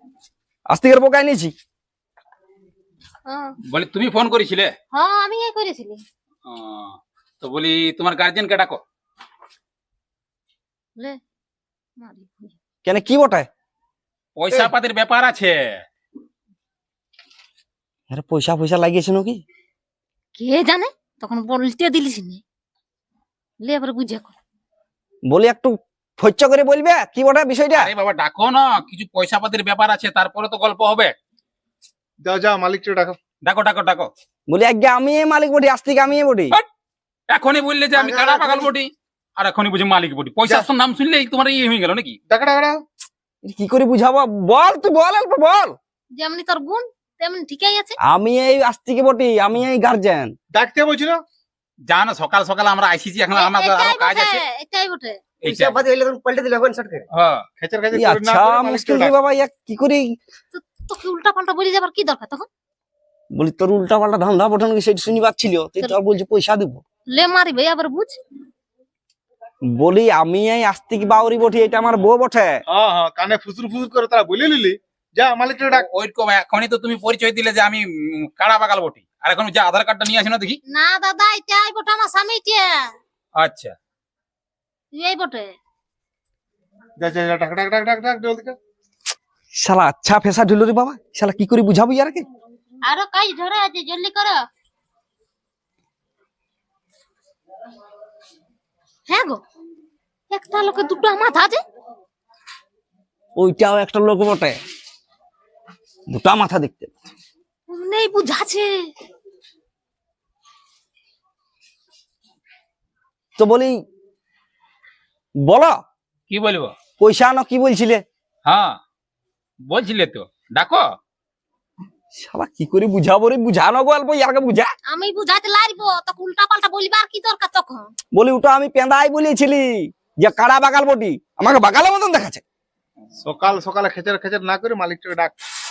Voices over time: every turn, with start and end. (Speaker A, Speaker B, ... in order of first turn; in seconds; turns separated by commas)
Speaker A: 0.7-1.5, Speaker B: 3.2-3.5, Speaker C: 3.7-4.7, Speaker B: 4.9-6.0, Speaker C: 6.5-8.8, Speaker B: 12.0-12.5, Speaker A: 12.8-13.5, Speaker C: 14.4-15.8, Speaker A: 18.1-19.4, Speaker B: 20.4-22.4, Speaker B: 23.6-24.4, Speaker A: 25.3-27.9, Speaker C: 27.7-31.1, Speaker D: 32.2-33.2, Speaker C: 33.4-34.1, Speaker A: 34.5-36.6, Speaker C: 37.3-42.2, Speaker E: 38.0-38.7, Speaker D: 42.3-42.8, Speaker A: 43.4-45.8, Speaker B: 46.2-48.0, Speaker A: 48.0-50.3, Speaker D: 50.5-51.2, Speaker C: 51.9-54.4, Speaker B: 53.3-55.2, Speaker C: 55.4-55.8, Speaker E: 55.4-57.0, Speaker C: 57.1-57.4, Speaker D: 57.6-59.1, Speaker A: 57.9-60.1, Speaker B: 60.5-62.5, Speaker A: 63.3-66.8, Speaker B: 67.1-68.2, Speaker A: 69.7-72.6, Speaker D: 72.7-75.8, Speaker C: 75.7-80.6, Speaker B: 80.7-82.9, Speaker C: 83.4-83.7, Speaker B: 84.9-85.5, Speaker D: 87.0-88.5, Speaker A: 89.5-92.2, Speaker B: 92.9-94.3, Speaker B: 99.1-99.4, Speaker B: 100.3-101.6, Speaker A: 103.4-104.6, Speaker A: 106.1-107.0, Speaker B: 107.7-108.7, Speaker A: 113.4-113.8, Speaker A: 115.4-115.8, Speaker C: 116.3-116.7, Speaker A: 117.0-118.0, Speaker C: 118.5-118.8, Speaker C: 119.7-120.8, Speaker A: 122.1-124.7, Speaker B: 124.9-127.9, Speaker A: 128.1-132.4, Speaker D: 133.2-135.3